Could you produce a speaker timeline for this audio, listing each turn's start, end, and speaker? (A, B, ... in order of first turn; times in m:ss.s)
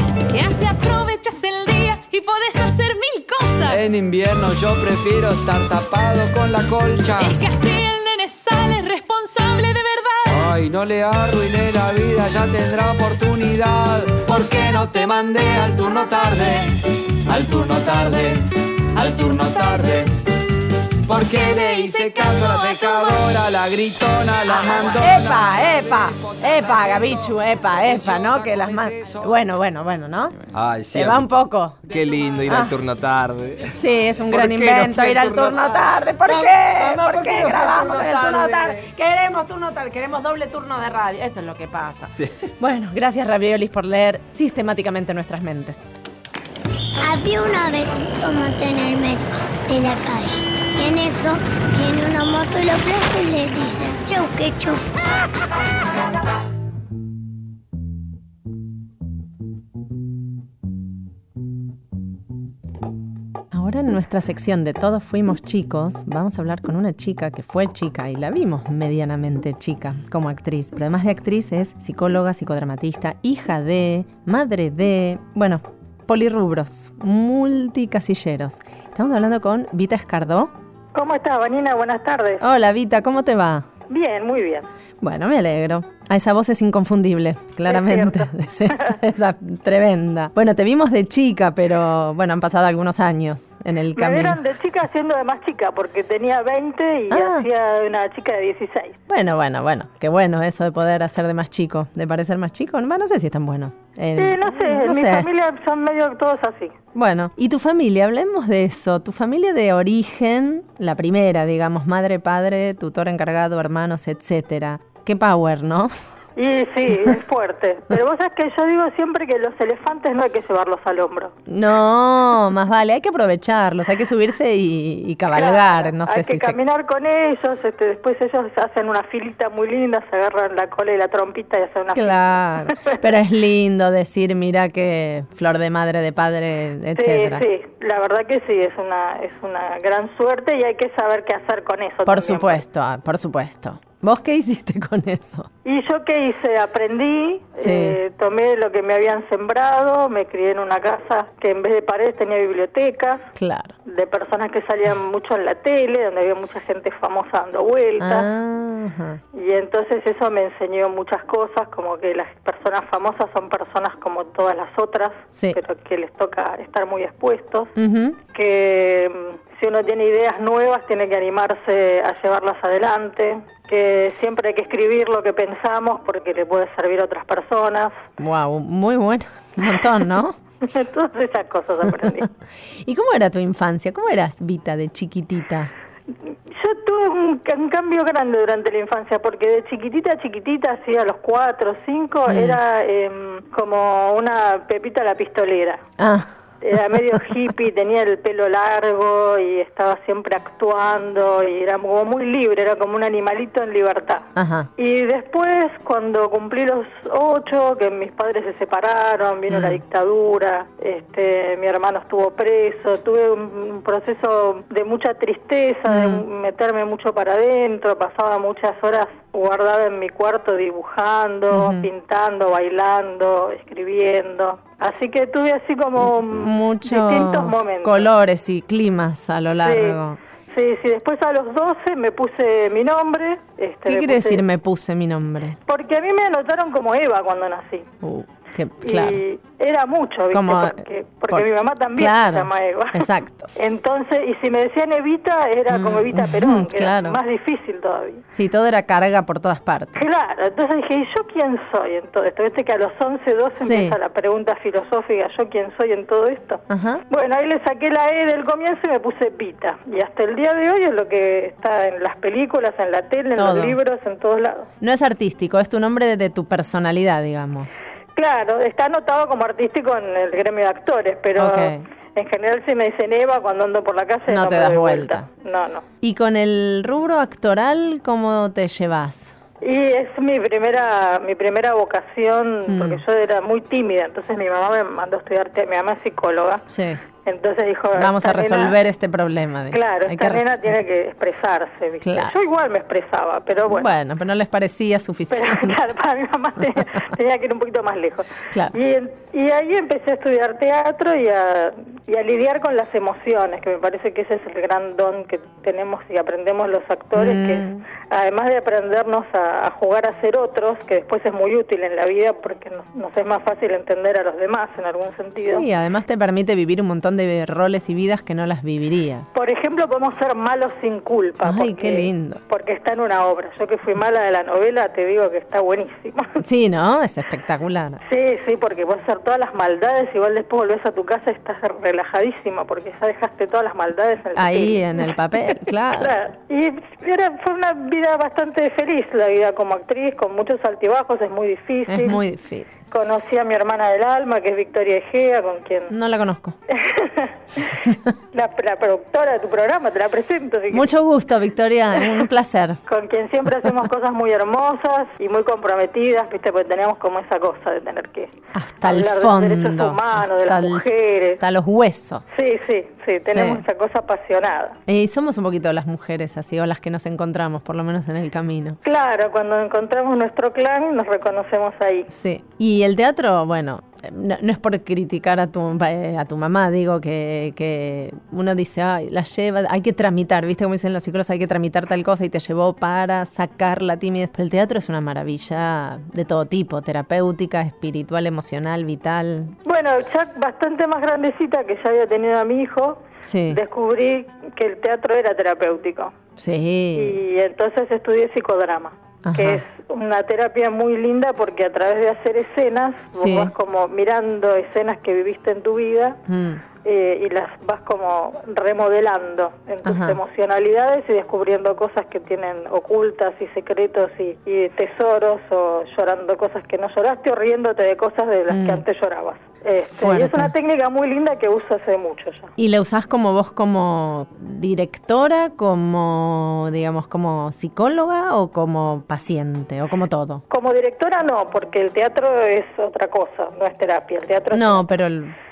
0:00.3-0:03.8 A
0:03.7-0:07.4 B
0:07.2-0:10.5 A
0:10.3-0:20.1 B
0:21.1-0:29.4 B
0:21.5-0:23.2 A
0:25.0-0:30.4 C
0:30.5-0:31.3 D
0:30.9-0:31.8 C
0:31.8-0:33.8 D
0:32.5-0:32.7 C
0:33.7-0:45.9 C
0:34.3-0:38.8 D
0:47.0-0:54.8 E
1:03.5-1:20.5 C
1:21.0-1:22.4 F
1:22.4-1:23.7 C
1:23.9-1:24.7 F
1:25.0-1:34.4 C
1:27.7-1:29.0 F
1:34.0-1:39.0 F
1:37.1-1:37.5 C
1:39.1-1:45.3 C
1:44.2-1:46.7 F
1:47.0-1:55.9 C
1:56.4-2:01.3 F
2:01.5-2:06.6 C
2:05.3-2:13.0 F
2:11.9-2:17.5 C
2:17.0-2:22.6 F
2:22.1-2:25.5 C
2:25.6-2:33.2 F
2:27.6-2:28.0 C
2:33.4-2:33.7 C
2:33.9-2:38.3 F
2:38.0-2:39.2 C
2:39.4-2:47.7 F
2:45.3-2:45.6 C
2:47.8-2:48.2 C
2:48.3-2:58.0 F
2:58.2-3:00.4 C
3:00.6-3:02.3 F
3:01.9-3:02.2 C
3:02.8-3:05.7 C
3:06.5-3:15.8 F
3:12.3-3:12.6 C
3:16.0-3:16.3 C
3:16.6-3:24.2 F
3:24.4-3:24.7 C
3:24.8-3:48.1 F
3:29.5-3:29.8 C
3:35.9-3:36.2 C
3:41.5-3:41.9 C
3:46.0-3:50.2 C
3:49.6-3:50.0 F
3:50.5-3:54.4 F
3:53.9-3:55.6 C
3:55.7-3:57.9 F
3:58.0-3:59.2 C
3:58.8-4:08.2 F
4:00.3-4:03.5 C
4:05.7-4:07.2 C
4:08.3-4:10.0 C
4:10.0-4:24.7 F
4:13.6-4:14.0 C
4:16.7-4:17.0 C
4:23.4-4:23.8 C
4:24.8-4:27.8 C
4:28.2-4:35.8 F
4:31.4-4:31.8 C
4:34.3-4:35.3 C
4:36.0-4:39.4 C
4:39.6-4:46.6 F
4:42.7-4:43.0 C
4:46.7-4:47.0 C
4:47.2-4:48.8 F
4:48.0-4:50.8 C
4:49.7-4:53.9 F
4:52.0-4:52.3 C
4:53.7-4:55.8 C
4:55.3-5:15.7 F
4:58.5-4:58.8 C
5:07.2-5:07.8 C
5:15.4-5:19.3 C
5:19.3-5:26.3 F
5:21.4-5:22.4 C
5:26.4-5:28.0 C
5:28.1-5:35.1 F
5:34.4-5:36.1 C
5:35.9-5:42.2 F
5:41.9-5:42.8 C
5:42.9-5:45.9 F
5:45.9-5:46.6 C
5:46.7-5:47.8 F
5:48.3-5:50.9 F
5:50.7-5:52.8 C
5:52.9-5:58.3 F
5:58.5-6:00.9 C
5:58.8-6:01.4 F
6:01.4-6:02.2 C
6:02.3-6:04.8 F
6:03.2-6:03.6 C
6:04.9-6:08.8 C
6:08.8-6:12.1 F
6:12.1-6:29.6 C
6:29.7-6:36.1 F
6:33.2-6:33.6 C
6:36.4-6:37.2 C
6:37.0-6:46.2 F
6:39.2-6:39.6 C
6:43.2-6:43.5 C
6:46.3-6:46.6 C
6:46.8-7:02.5 F
6:49.8-6:50.2 C
6:58.5-6:58.8 C
7:00.0-7:00.5 C
7:02.6-7:10.4 C
7:10.5-7:14.9 F
7:14.5-7:15.3 C